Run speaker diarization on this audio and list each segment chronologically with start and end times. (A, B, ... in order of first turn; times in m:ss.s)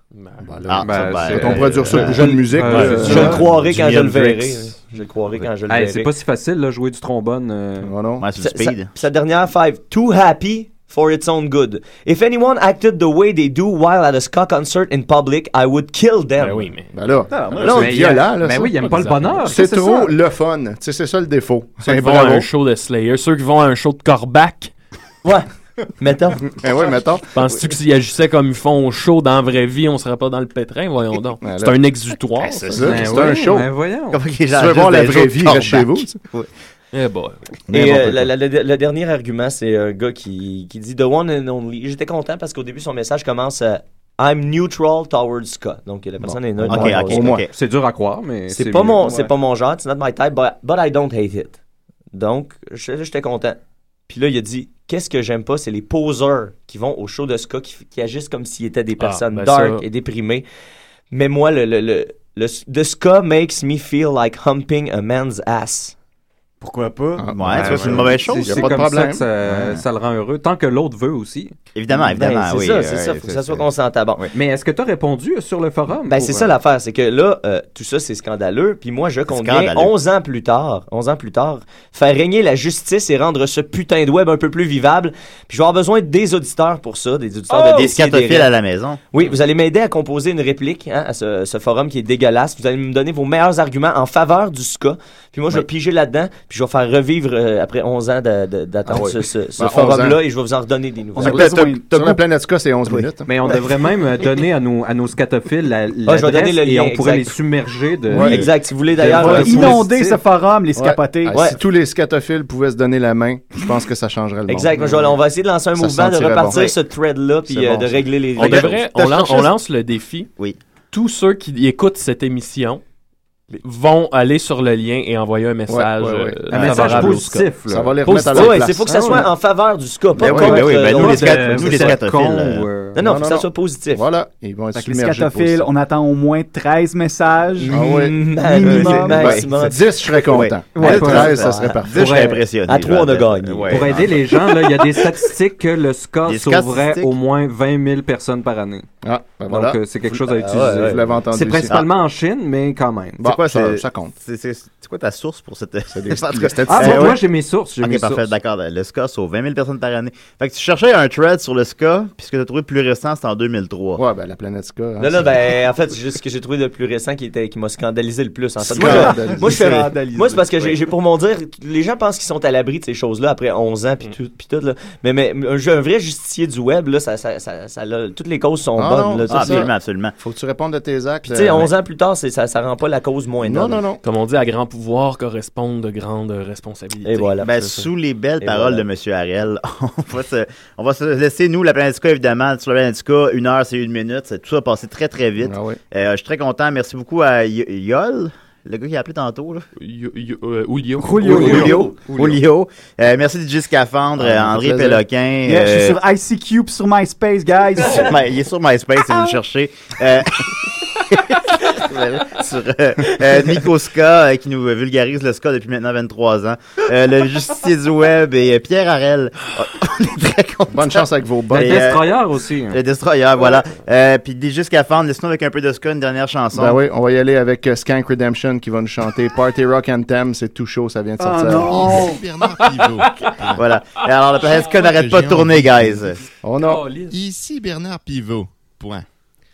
0:00.2-0:00.5 A
0:00.4-0:03.4 B
0:00.7-0:04.5 C
0:00.8-0:03.4 D
0:02.9-0:03.3 A
0:03.0-0:06.1 E
0:05.7-0:07.9 D
0:07.8-0:08.3 B
0:08.2-0:08.9 C
0:08.4-0:16.7 E
0:16.4-0:16.9 A
0:16.9-0:18.8 B
0:17.3-0:17.6 F
0:17.6-0:18.2 E
0:17.6-0:20.2 D
0:18.8-0:19.5 A
0:19.4-0:22.5 B
0:21.9-0:24.7 A
0:25.2-0:26.5 E
0:26.4-0:27.3 B
0:27.3-0:32.9 A
0:31.4-0:31.9 B
0:32.4-0:33.7 B
0:32.8-0:34.2 D
0:34.1-0:36.5 C
0:34.5-0:36.2 B
0:36.9-0:37.4 A
0:37.7-0:38.1 B
0:37.7-0:47.4 E
0:46.2-0:47.4 B
0:46.7-0:47.5 C
0:47.5-0:49.0 D
0:48.5-0:51.6 E
0:52.1-0:53.6 E
0:54.1-1:00.4 E
0:59.0-0:59.8 A
1:01.1-1:06.0 E
1:06.6-1:07.3 F
1:07.1-1:08.8 C
1:07.2-1:09.3 B
1:07.5-1:11.5 D
1:09.4-1:09.8 C
1:11.8-1:14.3 C
1:11.9-1:14.3 E
1:14.3-1:16.5 D
1:16.1-1:28.5 E
1:19.3-1:19.9 C
1:27.5-1:29.0 C
1:29.1-1:41.4 E
1:38.9-1:40.2 B
1:41.2-1:42.2 F
1:41.2-1:43.3 B
1:41.3-1:41.8 C
1:42.9-1:43.6 C
1:43.3-1:50.2 D
1:46.1-1:47.4 E
1:48.1-1:48.4 B
1:48.2-1:49.8 E
1:49.1-1:51.4 F
1:49.4-1:49.7 B
1:50.8-1:55.0 B
1:51.3-1:51.6 E
1:54.5-1:58.9 E
1:55.8-1:56.7 B
1:57.6-1:57.8 C
1:58.4-2:00.3 A
1:58.4-1:59.5 C
2:00.9-2:02.8 A
2:03.6-2:07.4 A
2:05.7-2:09.3 B
2:06.5-2:09.2 D
2:08.1-2:08.6 A
2:08.3-2:12.0 E
2:10.2-2:12.7 C
2:10.2-2:13.0 D
2:13.0-2:14.1 E
2:13.0-2:15.7 B
2:14.7-2:17.7 F
2:17.6-2:20.4 E
2:17.7-2:18.2 B
2:18.4-2:19.4 F
2:18.6-2:19.5 C
2:18.7-2:22.1 B
2:20.1-2:24.3 C
2:20.8-2:22.4 D
2:21.4-2:21.8 E
2:22.5-2:24.1 E
2:23.7-2:28.9 D
2:26.2-2:27.1 C
2:29.0-2:31.8 B
2:29.5-2:33.2 D
2:30.4-2:31.2 E
2:33.2-2:34.1 B
2:33.2-2:37.3 C
2:35.9-2:37.3 B
2:36.7-2:38.3 D
2:37.8-2:44.0 C
2:44.0-2:45.3 B
2:45.0-2:59.7 E
2:48.7-2:49.8 B
2:48.8-2:49.1 C
2:48.8-2:50.8 F
2:58.8-3:01.7 B
2:59.3-3:00.1 C
3:01.2-3:03.9 E
3:03.4-3:04.0 B
3:04.0-3:07.8 A
3:07.0-3:07.9 E
3:07.4-3:19.7 C
3:08.4-3:08.9 E
3:15.4-3:15.8 B
3:19.8-3:21.7 A
3:21.1-3:26.0 C
3:21.2-3:22.4 D
3:21.2-3:22.0 E
3:24.2-3:25.0 B
3:25.4-3:28.2 F
3:27.8-3:42.1 C
3:40.7-3:42.0 B
3:41.5-3:42.8 D
3:42.7-3:46.8 C
3:46.5-3:52.2 B
3:51.2-3:52.2 F
3:51.6-3:53.3 G
3:52.8-3:53.4 A
3:53.4-3:56.2 C
3:54.7-3:55.9 G
3:56.4-3:56.9 B
3:56.7-3:57.1 A
3:57.1-3:59.0 G